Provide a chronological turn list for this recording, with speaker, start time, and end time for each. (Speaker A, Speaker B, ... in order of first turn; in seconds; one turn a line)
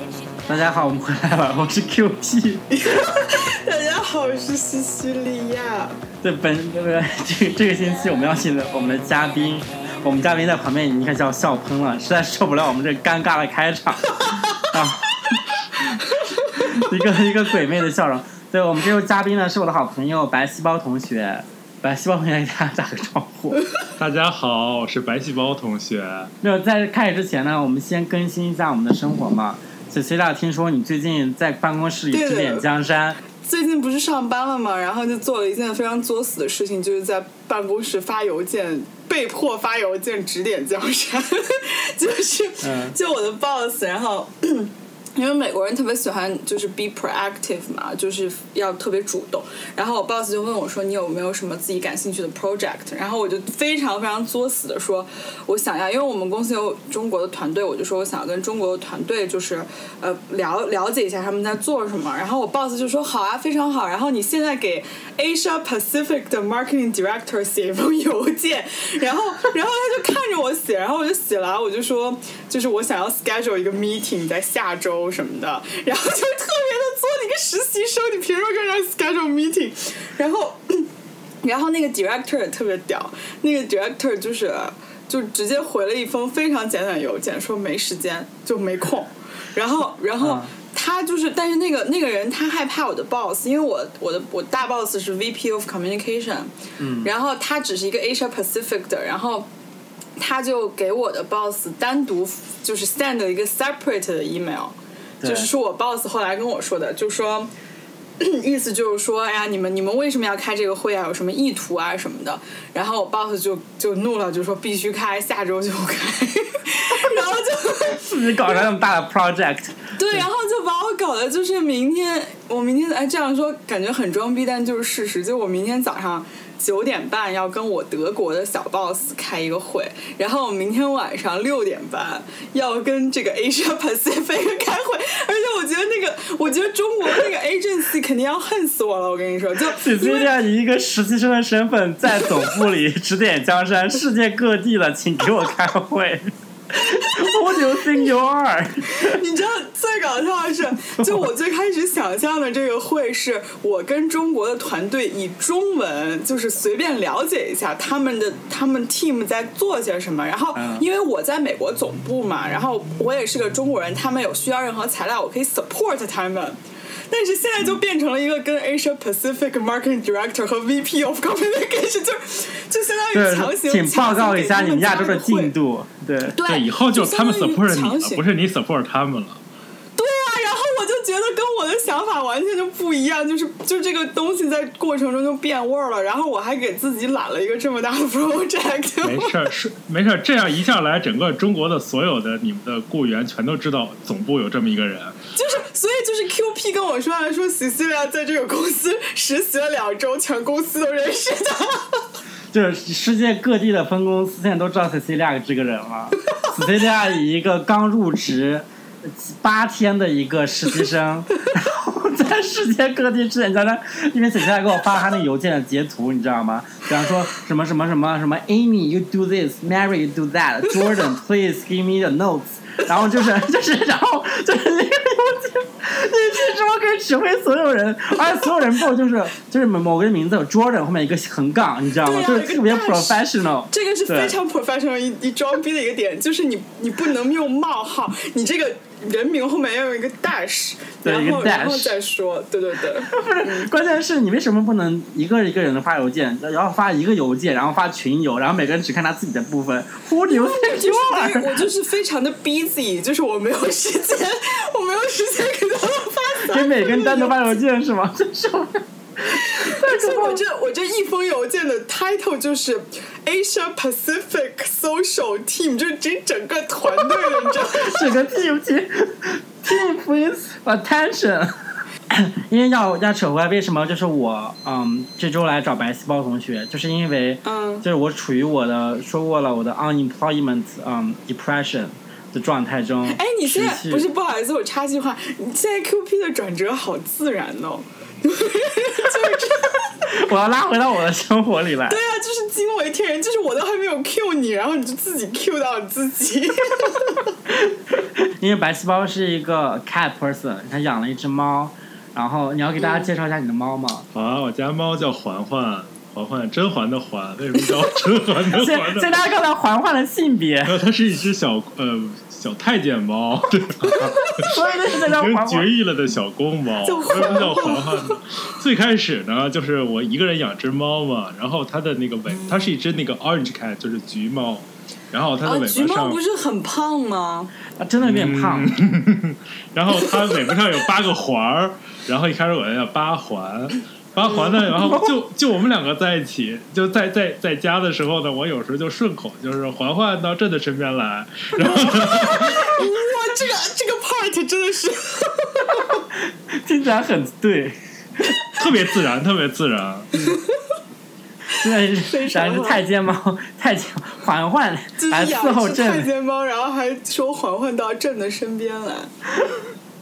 Speaker A: 0.5-3.1
Speaker B: 2.7-6.0
Speaker A: 6.2-15.2
Speaker A: 16.5-23.6
Speaker C: 24.0-26.3
Speaker A: 26.4-33.2
Speaker B: 32.1-32.7
Speaker B: 33.4-80.9
Speaker A: 42.6-43.0
Speaker B: 81.4-96.5
Speaker A: 90.2-90.5
Speaker A: 96.8-97.1
Speaker B: 97.0-99.5
Speaker B: 100.2-107.5
Speaker A: 105.2-105.5
Speaker B: 108.2-118.7
Speaker A: 118.0-120.3
Speaker B: 120.0-140.3
Speaker A: 139.7-149.2
Speaker B: 149.0-166.6
Speaker A: 151.0-151.2
Speaker A: 160.5-160.9
Speaker B: 167.1-175.5
Speaker A: 173.1-176.4
Speaker B: 176.3-178.2
Speaker C: 176.4-179.4
Speaker B: 179.9-189.4
Speaker C: 189.0-195.2
Speaker B: 195.3-202.0
Speaker A: 202.5-234.3
Speaker B: 232.0-243.7
Speaker A: 241.0-242.0
Speaker A: 243.0-251.6
Speaker B: 250.3-257.6
Speaker A: 256.5-260.4
Speaker B: 259.3-268.1
Speaker A: 267.2-271.6
Speaker A: 272.1-284.1
Speaker B: 277.4-277.9
Speaker B: 283.1-289.9
Speaker A: 290.0-292.0
Speaker B: 291.9-297.3
Speaker A: 297.5-304.1
Speaker B: 302.8-303.1
Speaker C: 304.1-309.1
Speaker A: 308.5-310.8
Speaker C: 310.6-326.2
Speaker A: 314.2-315.7
Speaker B: 316.8-318.2
Speaker B: 325.4-327.5
Speaker A: 327.8-328.7
Speaker C: 328.0-342.9
Speaker B: 341.6-346.0
Speaker A: 346.1-347.8
Speaker C: 348.6-350.3
Speaker A: 351.5-356.1
Speaker B: 352.0-352.8
Speaker B: 355.0-359.5